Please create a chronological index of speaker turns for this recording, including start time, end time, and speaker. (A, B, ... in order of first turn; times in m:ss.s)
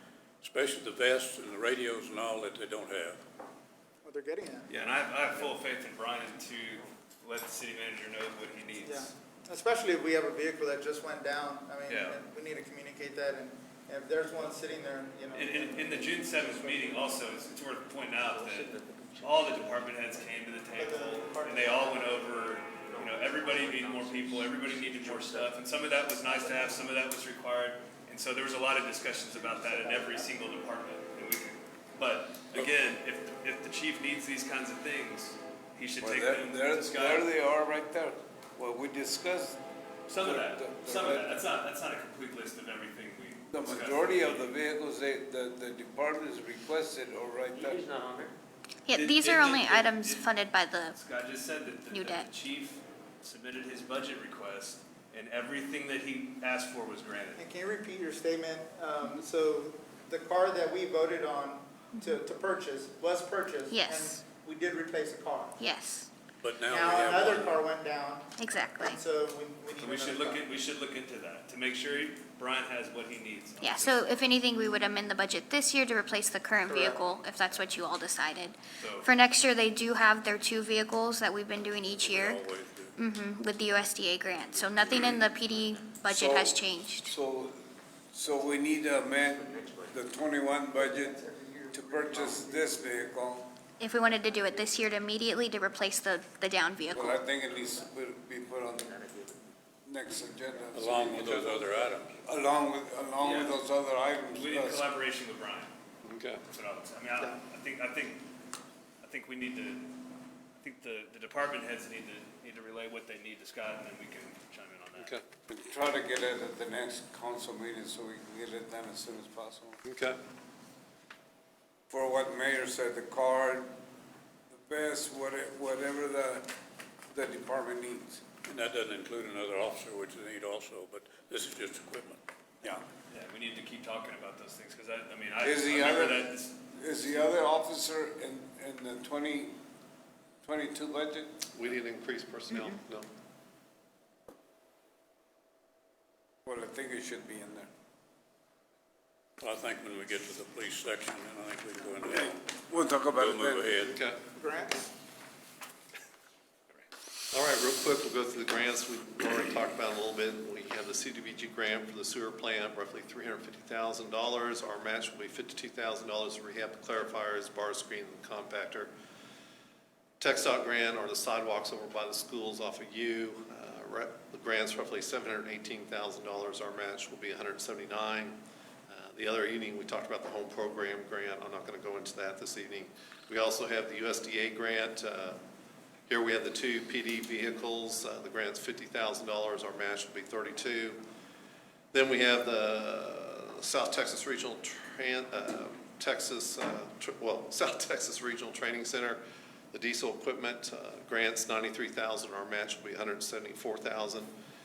0:00.4-0:03.2 A
0:04.0-0:04.7 B
0:04.7-0:09.1 C
0:08.8-0:17.2 B
0:11.9-0:12.2 C
0:15.4-0:37.3 C
0:18.2-0:19.8 D
0:20.8-0:22.2 B
0:22.8-0:25.6 D
0:29.3-0:30.3 B
0:36.0-0:39.6 E
0:40.1-0:44.5 C
0:40.2-0:41.4 E
0:43.5-0:47.9 E
0:47.5-0:48.3 D
0:48.9-0:51.0 F
0:48.9-0:50.4 C
0:50.9-0:57.4 C
0:51.9-0:52.3 F
0:57.4-1:05.6 B
1:01.9-1:02.2 F
1:03.7-1:04.3 F
1:05.6-1:06.1 F
1:06.4-1:07.7 A
1:06.7-1:10.5 B
1:08.4-1:09.0 F
1:09.8-1:14.2 C
1:13.6-1:22.4 F
1:16.7-1:17.0 B
1:18.8-1:19.1 C
1:21.9-1:23.0 A
1:23.0-1:27.2 F
1:24.5-1:24.9 A
1:26.1-1:27.6 E
1:28.1-1:33.5 E
1:29.2-1:30.0 D
1:31.0-1:32.6 B
1:33.8-1:37.2 F
1:36.9-1:39.1 E
1:38.8-1:39.3 D
1:39.8-1:44.9 E
1:40.7-1:42.1 A
1:43.2-1:43.6 C
1:44.3-1:45.7 C
1:46.0-1:46.4 G
1:46.5-1:48.3 C
1:49.0-1:50.0 C
1:50.6-1:55.1 C
1:55.0-1:55.2 G
1:55.5-1:59.8 E
1:59.8-2:00.2 G
2:01.9-2:03.7 E
2:04.5-2:06.5 E
2:07.1-2:08.2 E
2:08.4-2:12.2 A
2:13.1-2:17.4 C
2:15.4-2:19.6 E
2:20.4-2:21.4 E
2:21.5-2:23.1 G
2:26.5-2:27.7 E
2:29.4-2:34.0 A
2:32.7-2:33.8 E
2:33.9-2:34.3 G
2:34.3-2:34.8 B
2:37.3-2:48.9 G
2:50.2-3:05.4 G
3:06.1-3:11.0 G
3:11.9-3:19.2 G
3:19.7-3:24.3 G